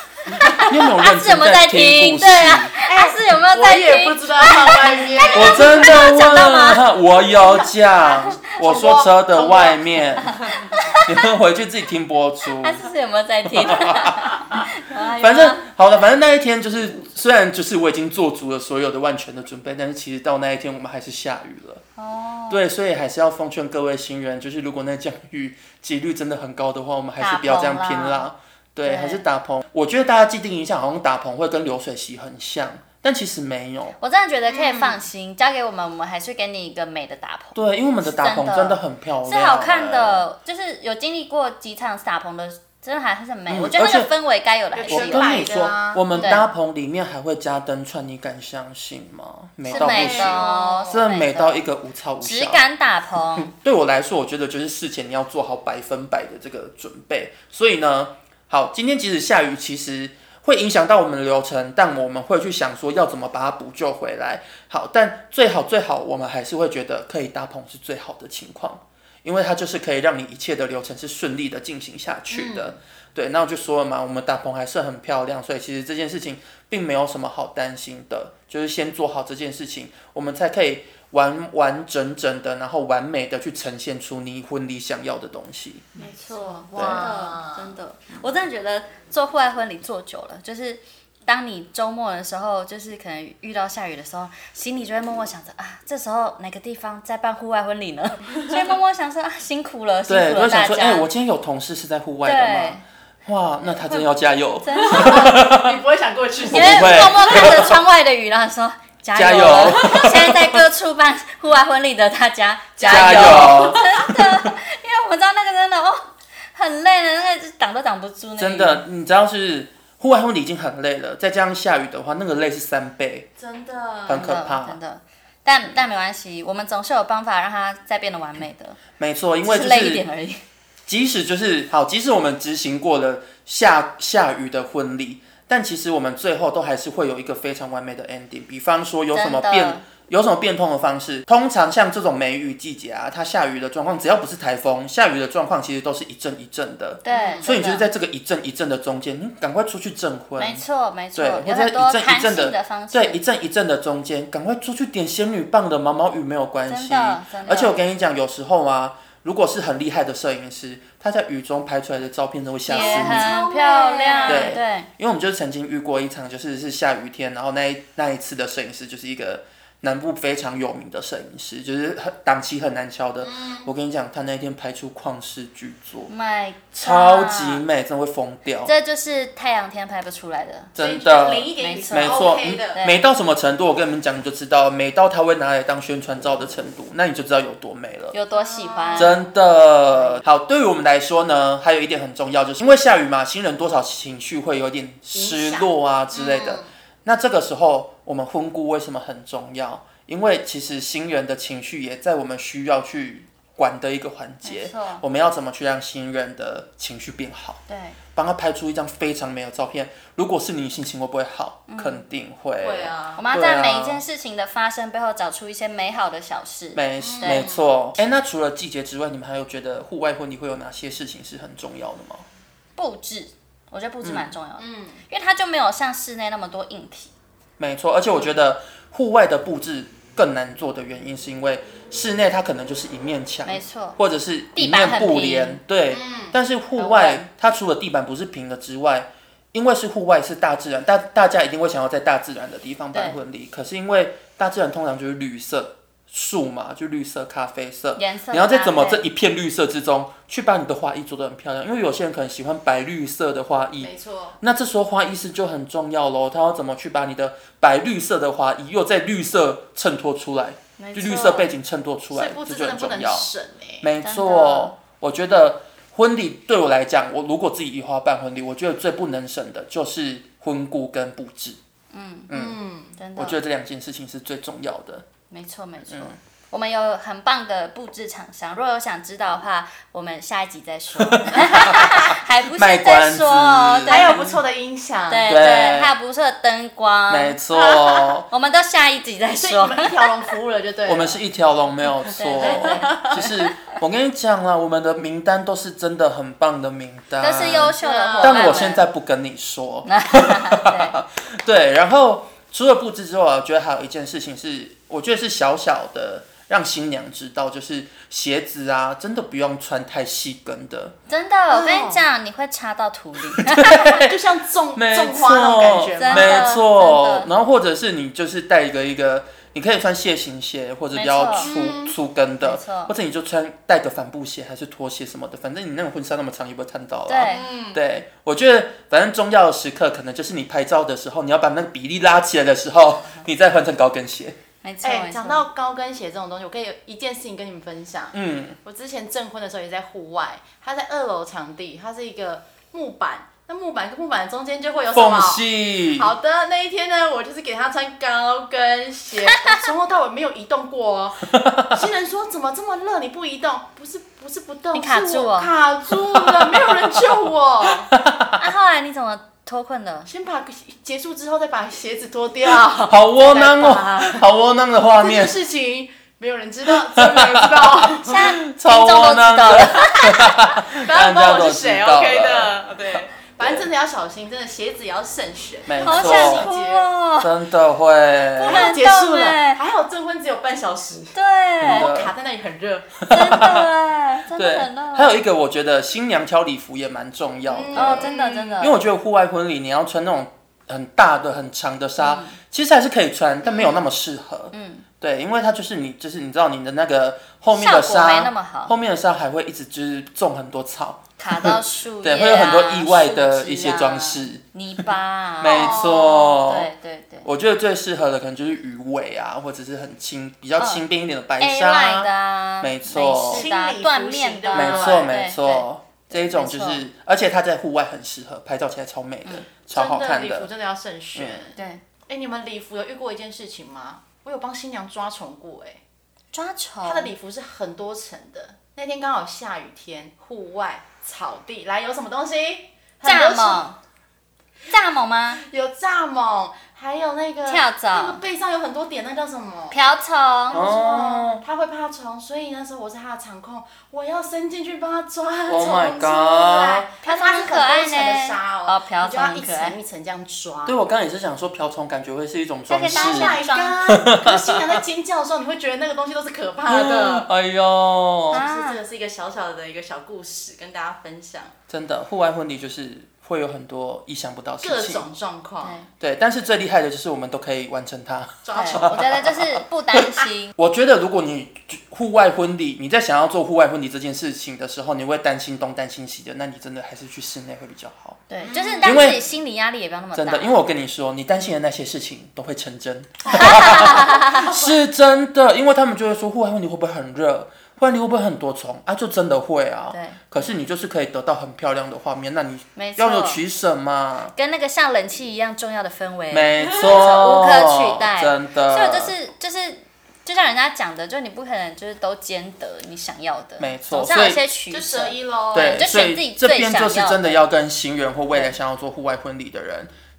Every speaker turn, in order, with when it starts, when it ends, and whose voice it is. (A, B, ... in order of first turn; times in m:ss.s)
0:00.3-0:06.8 A
0:00.5-0:02.7 B
0:02.8-0:05.9 C
0:05.3-0:10.4 B
0:07.3-0:10.7 C
0:10.4-0:11.2 A
0:11.0-0:12.8 B
0:12.6-0:15.6 A
0:13.5-0:14.6 B
0:15.2-0:21.8 B
0:22.0-0:22.6 A
0:22.5-0:34.0 B
0:27.2-0:28.3 A
0:28.8-0:29.2 A
0:34.0-0:45.5 A
0:34.5-0:35.0 C
0:37.5-0:40.2 B
0:43.5-0:44.1 B
0:44.7-0:46.4 C
0:44.9-0:52.6 B
0:46.1-0:46.4 A
0:49.6-0:51.6 A
0:49.7-0:51.0 C
0:52.2-0:53.5 A
0:53.4-1:25.9 B
1:12.3-1:12.7 C
1:26.0-1:27.8 C
1:26.0-1:41.1 A
1:26.8-1:27.1 B
1:40.1-1:45.8 B
1:42.2-1:42.8 A
1:44.6-1:45.3 A
1:44.8-1:47.7 C
1:46.5-1:47.8 B
1:46.5-1:58.8 A
1:49.1-1:50.6 B
1:52.8-1:53.9 C
1:52.8-1:54.5 B
1:58.4-2:03.3 B
2:03.4-2:04.3 C
2:04.0-2:04.8 B
2:04.1-2:08.8 A
2:09.0-2:10.0 B
2:09.4-2:10.4 A
2:10.9-2:30.6 B
2:19.1-2:19.8 A
2:27.0-2:27.9 A
2:27.1-2:27.5 C
2:30.4-2:33.2 A
2:31.1-2:43.4 B
2:36.7-2:37.8 A
2:42.7-2:44.9 A
2:42.7-2:44.6 C
2:44.2-2:56.1 B
2:53.2-2:53.7 C
2:56.1-2:57.6 A
2:56.7-2:58.7 B
2:58.6-3:00.7 A
3:00.7-3:08.2 B
3:00.8-3:02.8 C
3:01.6-3:03.0 A
3:08.1-3:09.2 A
3:08.3-3:09.2 C
3:09.0-3:27.6 B
3:15.1-3:16.6 C
3:24.4-3:25.0 A
3:27.7-3:28.0 A
3:28.1-3:34.0 B
3:31.7-3:32.0 A
3:32.6-3:33.2 C
3:33.2-3:37.5 A
3:36.7-3:42.2 B
3:37.0-3:37.6 C
3:42.8-3:47.1 A
3:44.0-3:44.3 B
3:44.6-3:45.0 C
3:47.6-4:23.3 B
3:53.4-3:54.0 A
3:54.5-3:55.6 A
3:55.9-3:56.3 C
3:56.8-3:57.3 A
4:08.0-4:09.0 A
4:13.8-4:14.4 C
4:20.8-4:21.5 A
4:22.1-4:23.9 C
4:23.8-4:31.6 B
4:24.0-4:24.7 A
4:31.9-4:32.3 A
4:32.3-4:32.6 B
4:32.3-4:33.0 C
4:33.0-4:33.4 A
4:33.2-4:35.1 B
4:35.3-4:44.2 A
4:35.9-4:36.2 B
4:41.0-4:44.4 B
4:41.4-4:41.9 C
4:43.9-4:45.4 C
4:45.1-4:47.4 A
4:45.3-4:45.9 B
4:47.1-4:48.2 B
4:47.6-4:48.0 C
4:48.3-4:50.1 A
4:49.3-4:51.2 C
4:50.8-5:10.9 B
4:52.1-4:53.5 A
4:52.4-4:53.3 C
4:57.2-4:58.8 A
4:57.8-4:58.7 C
4:59.8-5:01.0 A
5:11.1-5:13.9 A
5:11.5-5:12.0 C
5:13.4-5:14.2 B
5:13.9-5:16.6 C
5:14.7-5:34.4 B
5:16.0-5:17.3 A
5:20.9-5:21.5 A
5:21.4-5:22.0 C
5:22.4-5:22.9 A
5:27.1-5:27.4 A
5:27.2-5:27.8 C
5:34.6-5:35.4 A
5:34.8-5:57.9 C
5:38.1-5:38.6 B
5:44.9-5:46.1 B
5:49.2-5:49.6 A
5:51.3-5:51.8 B
5:54.7-5:55.5 A
5:55.9-5:58.4 B
5:58.4-6:00.1 A
6:00.1-6:04.3 C
6:02.8-6:05.4 B
6:05.0-6:08.3 C
6:06.7-6:12.5 B
6:08.0-6:10.3 A
6:10.4-6:16.9 C
6:13.4-6:13.6 B
6:15.7-6:16.5 B
6:15.8-6:17.3 A
6:17.2-6:18.7 B
6:18.4-6:19.6 A
6:18.4-6:23.0 C
6:21.1-6:21.9 A
6:21.6-6:22.1 B
6:23.0-6:23.7 B
6:23.1-6:25.2 A
6:24.3-6:44.4 B
6:27.4-6:28.6 C
6:27.7-6:28.8 A
6:32.0-6:32.4 A
6:34.5-6:34.8 A
6:37.5-6:38.7 A
6:41.2-6:47.3 A
6:45.4-6:46.7 B
6:45.4-6:46.2 C
6:47.2-6:52.1 B
6:50.6-6:50.8 A
6:51.4-6:56.8 A
6:52.6-6:53.5 B
6:53.3-6:55.1 C
6:54.5-7:00.5 B
6:59.7-7:05.8 C
7:01.1-7:01.4 B
7:01.5-7:01.8 A
7:06.3-7:07.1 A
7:06.8-7:13.7 C
7:13.0-7:13.8 A
7:14.7-7:15.4 A
7:15.4-7:19.8 C
7:17.5-7:18.2 A
7:19.7-7:20.6 A
7:20.5-7:30.8 C
7:20.5-7:21.4 B
7:25.5-7:26.9 B
7:27.0-7:29.8 A
7:30.6-7:34.8 B
7:32.7-7:33.7 A
7:32.9-7:37.3 C
7:36.7-7:38.4 B
7:38.3-7:38.8 A
7:38.3-7:41.5 C
7:41.7-7:45.0 B
7:44.6-7:45.8 C
7:45.6-7:45.9 A
7:46.0-7:58.2 B
7:48.4-7:49.3 C
7:48.5-7:50.5 A
7:58.3-8:00.6 A
7:58.4-7:59.2 C
7:58.8-7:59.2 B
8:00.1-8:14.3 B
8:03.2-8:04.7 C
8:03.3-8:04.5 A
8:09.9-8:10.2 A
8:12.8-8:13.4 A
8:14.3-8:27.4 A
8:16.3-8:19.1 B
8:16.6-8:17.1 C
8:23.6-8:24.4 B
8:24.7-8:25.8 C
8:25.5-8:29.9 B